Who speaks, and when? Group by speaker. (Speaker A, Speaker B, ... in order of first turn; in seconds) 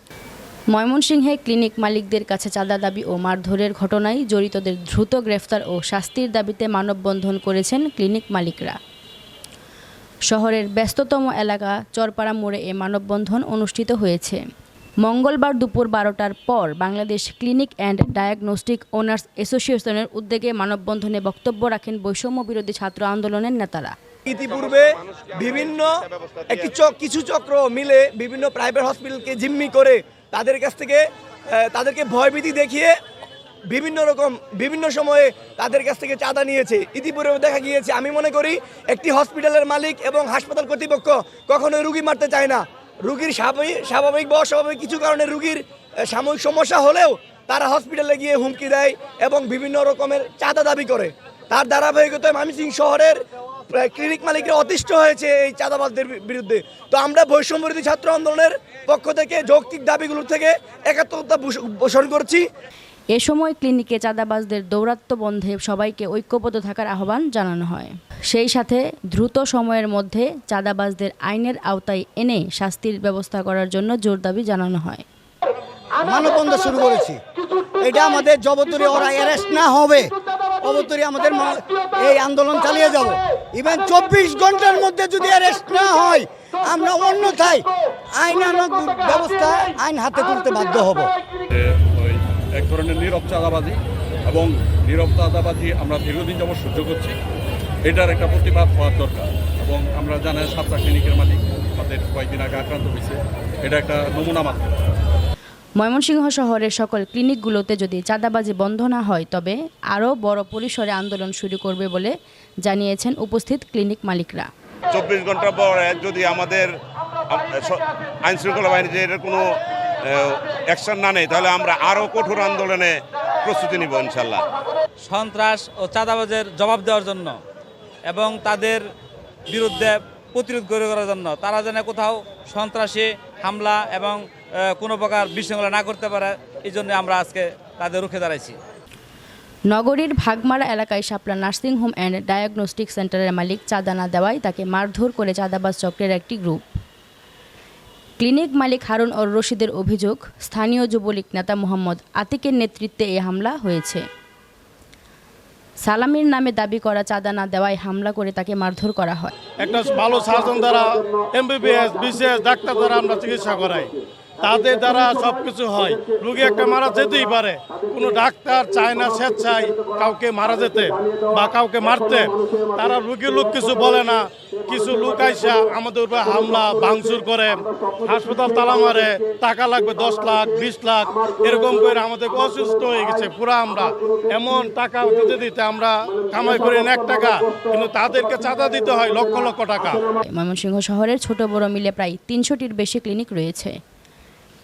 Speaker A: 0.7-8.8, 10.3-14.4, 15.0-23.9, 63.1-75.0, 105.8-112.1, 112.7-114.5, 139.7-146.7, 148.2-154.0, 155.8-159.4, 190.3-193.8
Speaker B: 24.3-25.9, 26.5-31.0, 31.5-32.9, 33.7-62.5
Speaker C: 76.0-77.2, 77.8-91.1
Speaker D: 91.5-97.2, 97.9-104.7
Speaker E: 114.9-116.7, 117.3-119.5, 120.0-124.5
Speaker F: 125.1-127.4, 128.1-128.8, 129.5-134.2, 134.7-138.6
Speaker G: 159.6-190.0